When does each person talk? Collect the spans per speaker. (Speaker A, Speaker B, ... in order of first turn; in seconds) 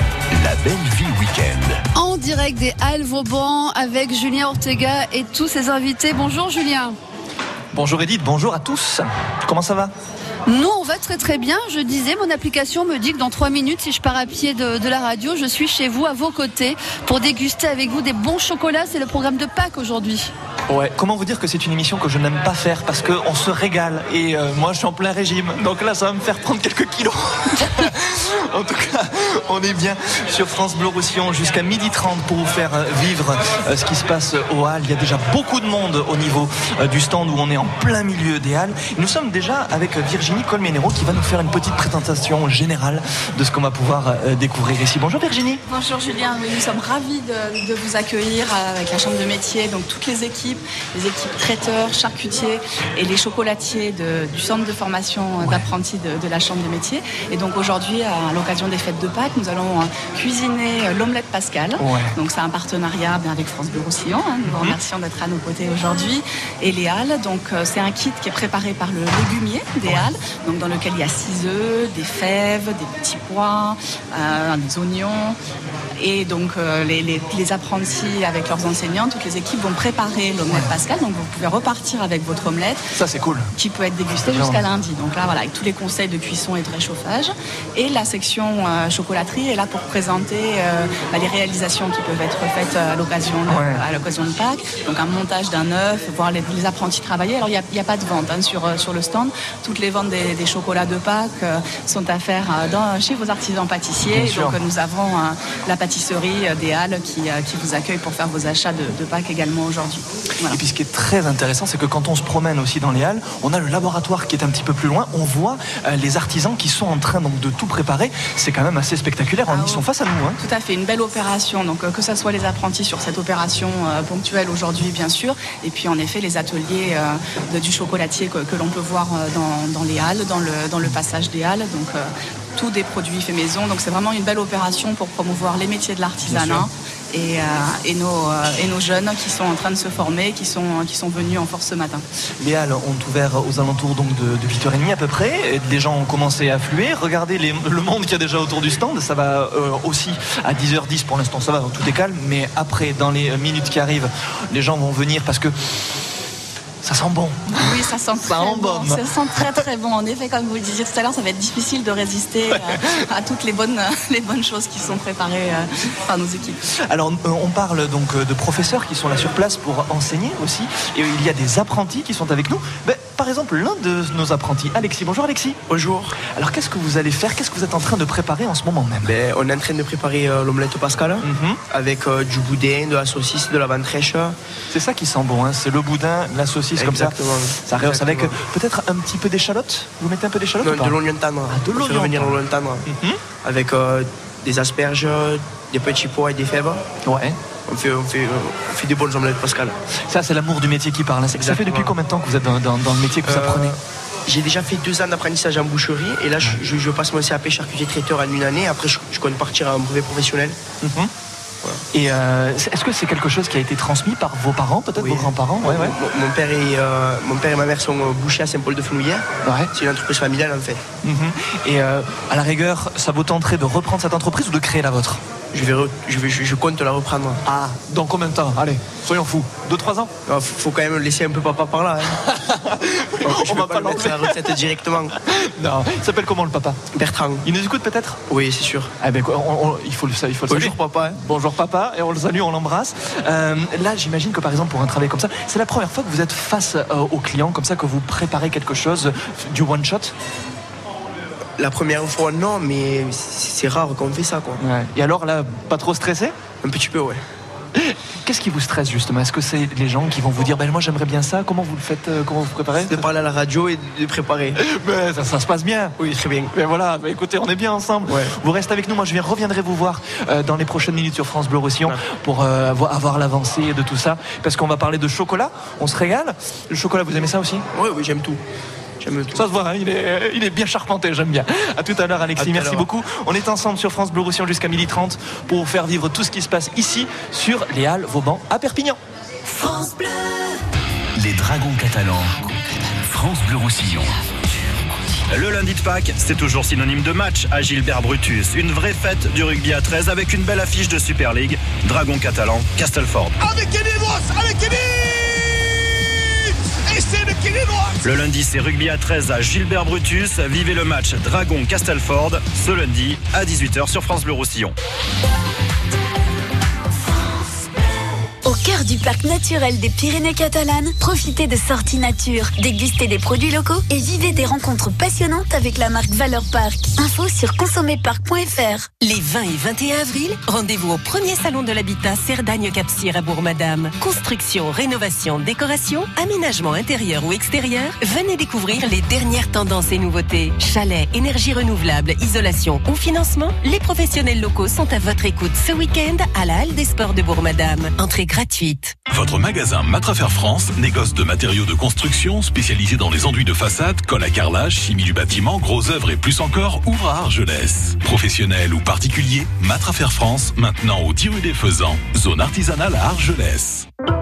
Speaker A: 1.9-7.0, 10.4-20.3
Speaker B: 7.7-9.9, 20.7-45.6, 61.8-62.1, 64.5-64.8, 82.9-83.5, 84.2-84.6, 93.5-93.8, 104.1-104.5, 110.5-120.4, 136.2-136.7, 142.4-155.8, 156.8-157.7, 158.2-159.0, 166.9-175.6, 176.2-179.1, 181.2-181.6, 184.7-191.0, 191.5-193.2, 197.0-197.4, 200.1-203.7, 210.8-211.1, 211.9-215.9, 219.4-219.7, 221.0-225.2, 227.4-230.1, 232.5-234.5, 235.3-236.9, 237.4-238.2, 239.0-250.1, 254.6-256.3, 257.8-263.0, 264.6-277.6, 279.3-289.0
Speaker C: 45.7-75.4, 76.0-82.8, 83.5-110.6, 119.5-119.8, 120.4-142.0, 157.5-166.6
Speaker D: 175.7-176.2, 179.0-184.3, 186.8-188.3, 190.6-192.8, 193.4-196.8, 197.7-199.7, 201.3-201.9, 203.2-203.8, 204.3-210.6, 215.0-220.8, 225.5-227.4, 230.3-232.2, 233.2-235.2, 236.9-237.4, 238.3-238.9, 240.5-241.2, 251.6-254.6, 256.6-257.2, 262.8-264.6, 266.0-266.5, 268.1-268.3, 277.7-278.4, 279.0-279.4, 282.4-282.8
Speaker E: 291.2-292.3, 293.1-294.1
Speaker F: 295.3-305.2, 306.9-314.7
Speaker G: 318.4-329.0
Speaker H: 328.9-348.9
Speaker I: 349.1-363.9